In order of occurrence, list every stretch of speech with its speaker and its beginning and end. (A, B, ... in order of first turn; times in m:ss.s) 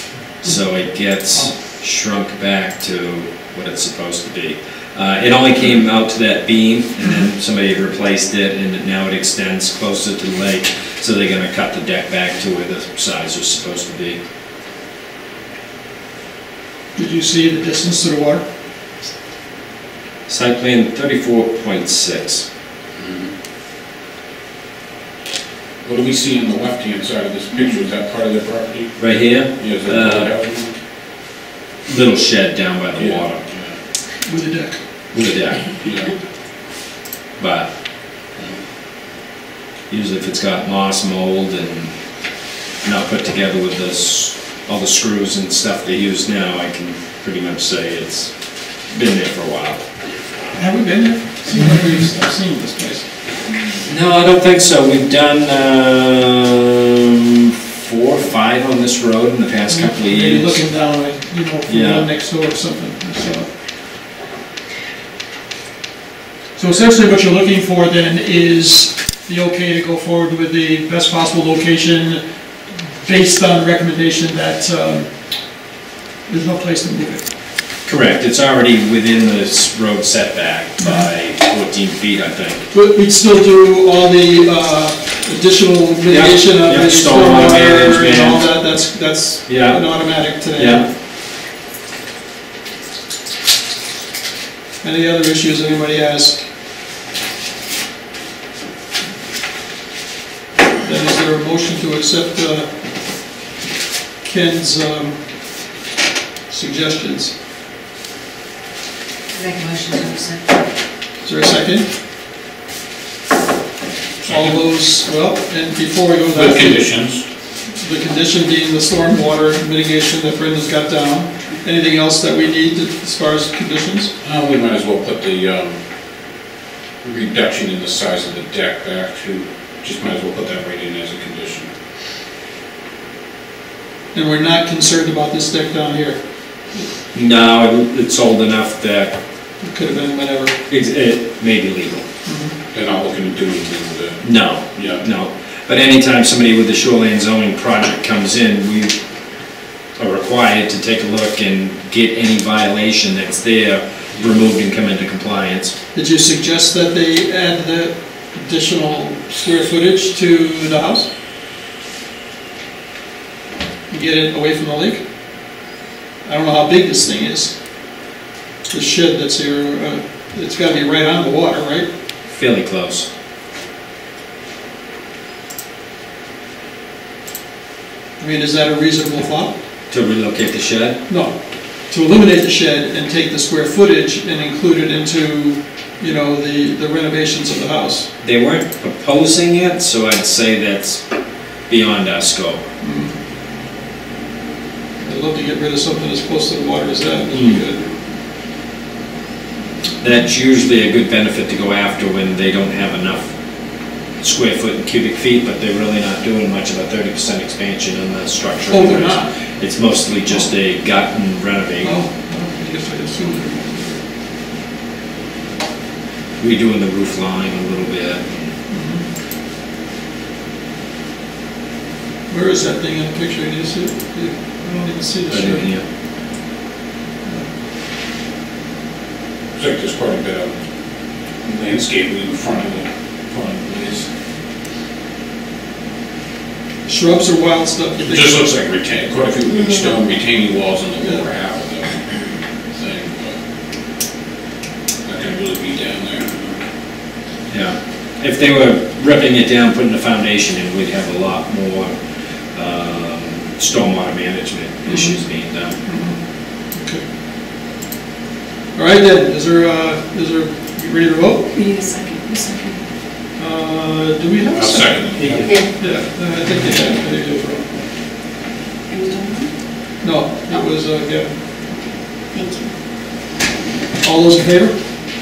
0:00.4-0:14.2 A
0:17.0-0:18.4 B
0:20.3-0:22.5 A
0:23.0-0:23.3 C
0:25.8-0:29.0 C
0:29.0-0:30.3 A
0:29.6-0:30.7 C
0:31.9-0:33.4 A
0:33.0-0:33.8 C
0:34.2-0:34.8 B
0:35.1-0:35.7 A
0:35.8-0:36.1 C
0:37.4-0:37.7 A
0:39.9-0:41.9 A
0:42.8-0:48.3 A
0:48.9-0:49.8 A
0:50.5-0:53.0 B
0:53.8-1:00.6 A
0:59.7-1:03.5 B
1:01.7-1:02.1 A
1:06.6-1:12.2 B
1:13.0-1:15.1 B
1:16.3-1:17.2 B
1:17.9-1:22.6 A
1:22.7-1:30.9 B
1:26.1-1:28.4 A
1:29.5-1:29.8 A
1:30.5-1:30.8 A
1:34.8-1:36.4 B
1:40.8-1:42.7 B
1:44.2-1:45.2 B
1:46.5-1:47.3 B
1:49.3-1:50.4 D
1:51.2-1:51.9 B
1:54.2-1:54.6 C
1:54.3-1:56.9 B
1:56.3-1:57.2 C
1:57.8-2:04.1 B
2:04.2-2:05.8 C
2:07.0-2:11.7 C
2:14.1-2:16.2 B
2:17.1-2:19.1 A
2:19.6-2:20.6 B
2:20.7-2:22.0 A
2:22.2-2:22.5 B
2:22.7-2:24.2 C
2:24.2-2:29.0 A
2:24.8-2:25.0 C
2:30.0-2:35.7 A
2:35.9-2:41.1 B
2:43.9-2:45.0 B
2:46.2-2:47.5 B
2:48.7-2:51.9 B
2:52.3-2:53.1 A
2:58.2-2:59.5 B
2:59.9-3:01.0 A
3:01.1-3:01.3 B
3:01.9-3:08.1 B
3:08.2-3:11.0 A
3:11.7-3:12.6 A
3:12.8-3:13.1 B
3:15.0-3:17.9 B
3:20.0-3:23.3 A
3:24.2-3:32.0 A
3:28.7-3:29.3 B
3:31.8-3:34.0 B
3:36.4-3:38.5 A
3:38.7-3:39.0 B
3:42.3-3:45.7 B
3:45.3-3:45.8 A
3:49.6-3:50.5 C
3:51.4-3:54.1 C
3:56.8-3:58.6 B
3:58.0-4:02.0 C
4:02.8-4:03.4 C
4:05.0-4:06.6 C
4:07.5-4:11.9 A
4:12.5-4:15.8 A
4:14.9-4:15.2 B
4:15.8-4:16.2 B
4:16.7-4:17.0 B
4:18.8-4:21.5 B
4:21.5-4:22.8 D
4:23.4-4:25.2 B
4:24.5-4:25.6 C
4:25.2-4:25.6 A
4:25.8-4:27.7 B
4:28.9-4:29.5 D
4:30.0-4:31.3 B
4:32.3-4:32.7 D
4:34.0-4:34.7 B